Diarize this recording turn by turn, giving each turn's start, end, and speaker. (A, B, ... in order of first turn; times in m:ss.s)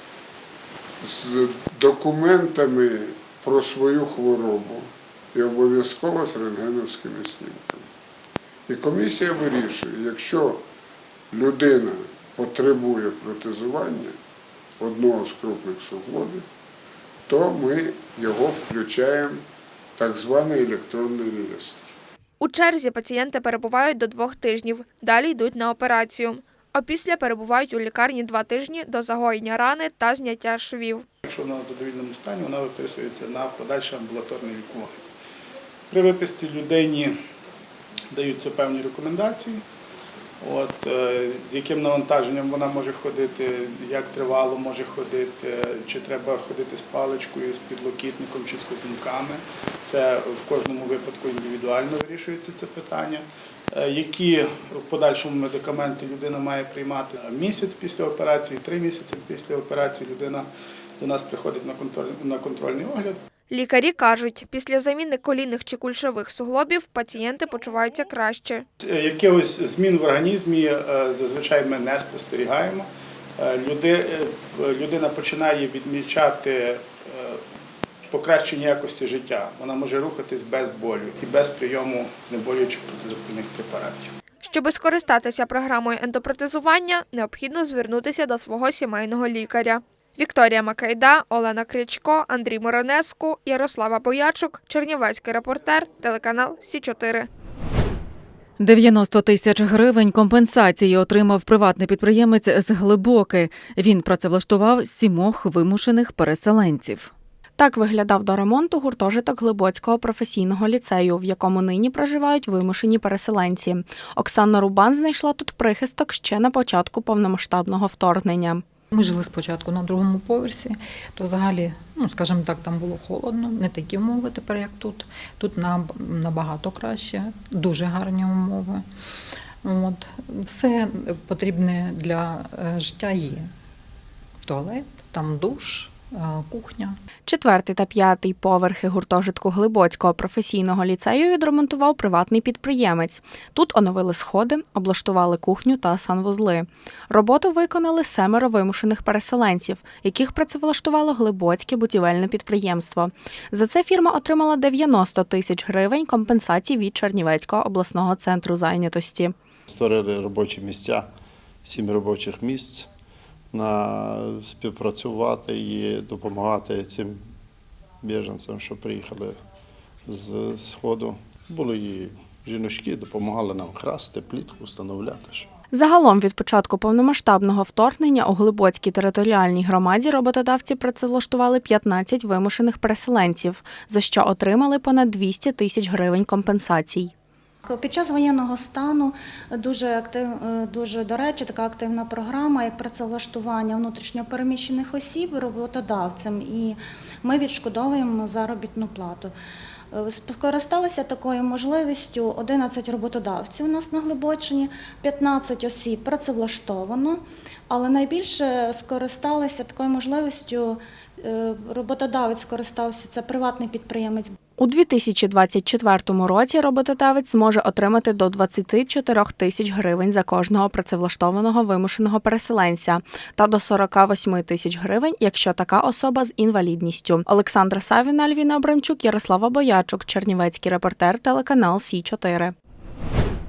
0:01.0-0:07.8 A
0:08.7-0:10.6 A
0:11.3-0:14.1 A
0:14.8-0:16.4 A
0:17.3-0:19.4 A
0:20.0-0:21.9 A
0:22.4-0:31.0 B
0:31.2-0:35.0 C
0:35.9-0:37.1 C
0:38.1-0:39.6 C
0:40.4-1:00.5 C
1:01.0-1:03.2 C
1:03.5-1:08.6 B
1:08.8-1:17.4 C
1:18.1-1:24.1 C
1:24.4-1:37.3 B
1:38.6-1:47.1 D
1:47.6-1:58.6 E
1:59.1-2:08.8 F
2:09.7-2:10.8 F
2:11.3-2:13.4 F
2:14.6-2:15.9 F
2:16.5-2:16.9 F
2:17.3-2:39.3 E
2:39.7-2:41.1 G
2:41.6-2:42.8 G
2:43.5-2:47.2 G
2:48.0-2:49.3 G
2:50.1-2:55.5 G
2:55.7-3:07.1 E
3:07.6-3:19.3 H
3:19.9-3:27.2 H
3:27.7-3:34.3 H
3:34.6-3:52.5 E